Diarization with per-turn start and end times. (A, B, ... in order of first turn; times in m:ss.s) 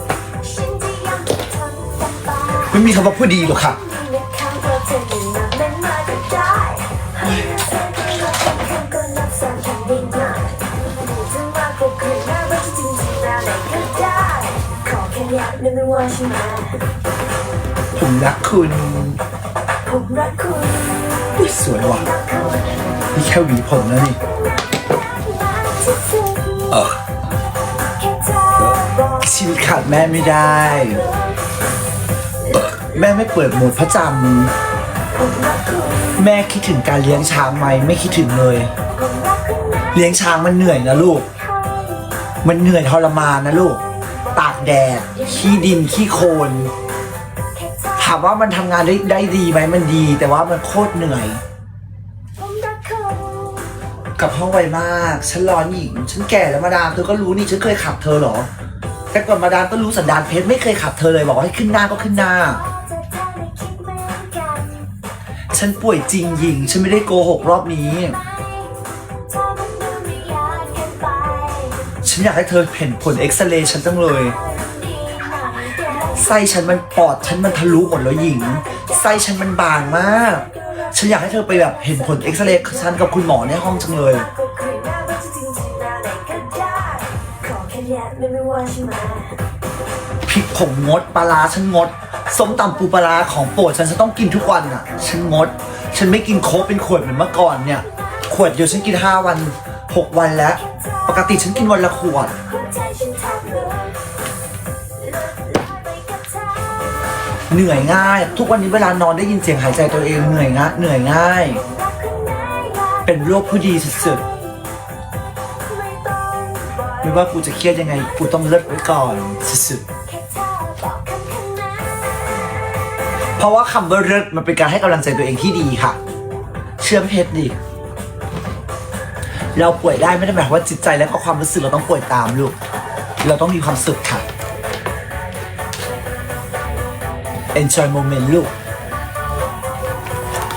0:00.3-0:16.8 A
0:02.7-0:03.8 B
0:17.9-0:19.2 B
0:19.8-0:23.1 A
0:21.4-0:22.0 B
0:23.1-0:24.2 B
0:24.5-0:27.0 A
0:27.8-0:31.4 A
0:29.2-0:31.1 B
0:32.4-0:33.0 A
0:32.5-0:34.5 B
0:35.1-0:36.3 A
0:36.2-0:38.7 B
0:38.9-0:42.4 A
0:39.9-0:41.3 B
0:42.4-0:43.8 B
0:44.1-0:46.1 A
0:44.4-0:46.7 B
0:47.6-0:48.2 A
0:48.0-0:51.4 B
0:52.4-0:53.8 A
0:54.2-0:58.5 B
0:59.1-1:02.6 B
1:01.9-1:04.9 A
1:05.5-1:08.2 B
1:07.8-1:12.0 A
1:12.0-1:14.4 B
1:14.2-1:16.4 A
1:16.2-1:24.3 B
1:20.2-1:29.4 A
1:30.3-1:42.4 B
1:37.9-1:38.5 A
1:40.6-1:44.0 A
1:44.9-1:48.3 A
1:47.5-1:51.6 B
1:51.5-1:54.8 A
1:53.0-1:54.2 B
1:55.5-1:58.2 A
1:57.0-1:59.8 B
2:00.1-2:02.5 A
2:03.4-2:06.0 B
2:06.8-2:07.6 B
2:09.6-2:12.6 B
2:13.2-2:14.3 B
2:17.5-2:18.5 B